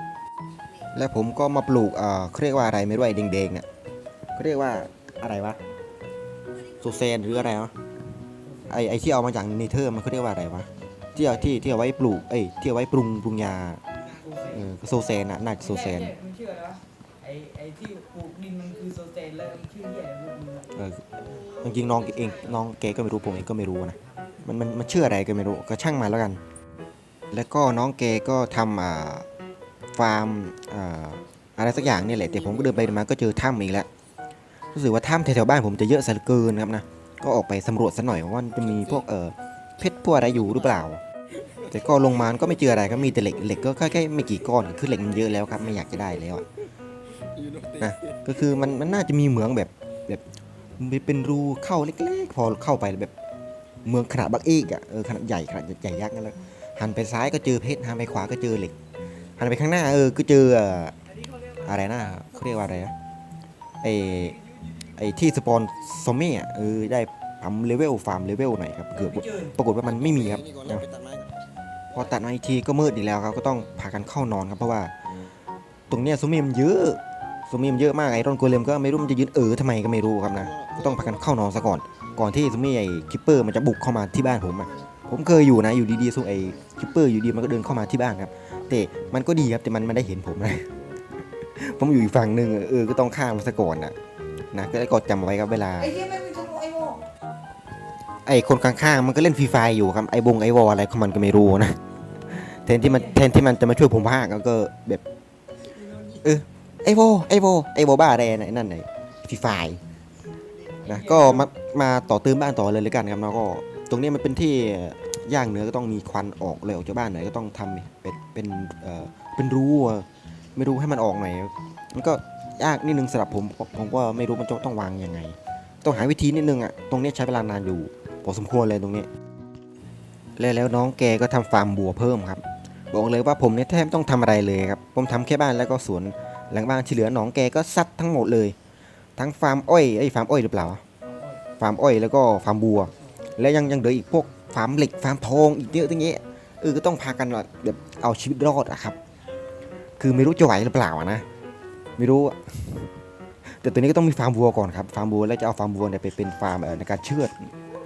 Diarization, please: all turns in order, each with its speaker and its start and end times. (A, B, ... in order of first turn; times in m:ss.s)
0:00.9-0:03.6 A
0:04.4-0:05.6 A
0:06.8-0:07.7 A
0:08.4-0:08.8 B
0:08.7-0:13.8 A
0:14.2-0:14.6 B
0:14.5-0:16.2 A
0:15.6-0:20.7 B
0:20.7-0:21.0 A
0:21.6-0:26.4 A
0:27.3-0:29.2 A
0:30.0-0:33.9 A
0:31.7-0:33.0 C
0:34.7-0:41.0 A
0:38.7-0:39.0 C
0:40.3-0:40.7 C
0:41.6-0:43.2 C
0:41.7-0:46.4 A
0:45.9-0:46.2 C
0:47.3-0:48.9 C
0:47.8-0:50.2 A
0:50.8-0:53.1 A
0:53.8-0:58.7 A
0:59.4-1:00.9 A
1:01.6-1:02.9 A
1:03.8-1:04.4 A
1:05.0-1:10.8 A
1:09.0-1:09.5 B
1:09.8-1:11.3 C
1:11.9-1:14.9 A
1:15.9-1:30.7 A
1:20.4-1:21.2 C
1:31.6-1:33.9 A
1:34.5-1:36.0 A
1:35.8-1:37.0 B
1:38.2-1:41.8 A
1:42.3-1:45.0 A
1:46.2-1:49.8 A
1:50.8-1:51.5 B
1:50.8-2:09.1 A
2:10.4-2:18.6 A
2:19.2-2:20.8 A
2:21.6-2:29.0 A
2:30.0-2:31.2 A
2:32.0-2:32.9 A
2:33.6-2:37.5 A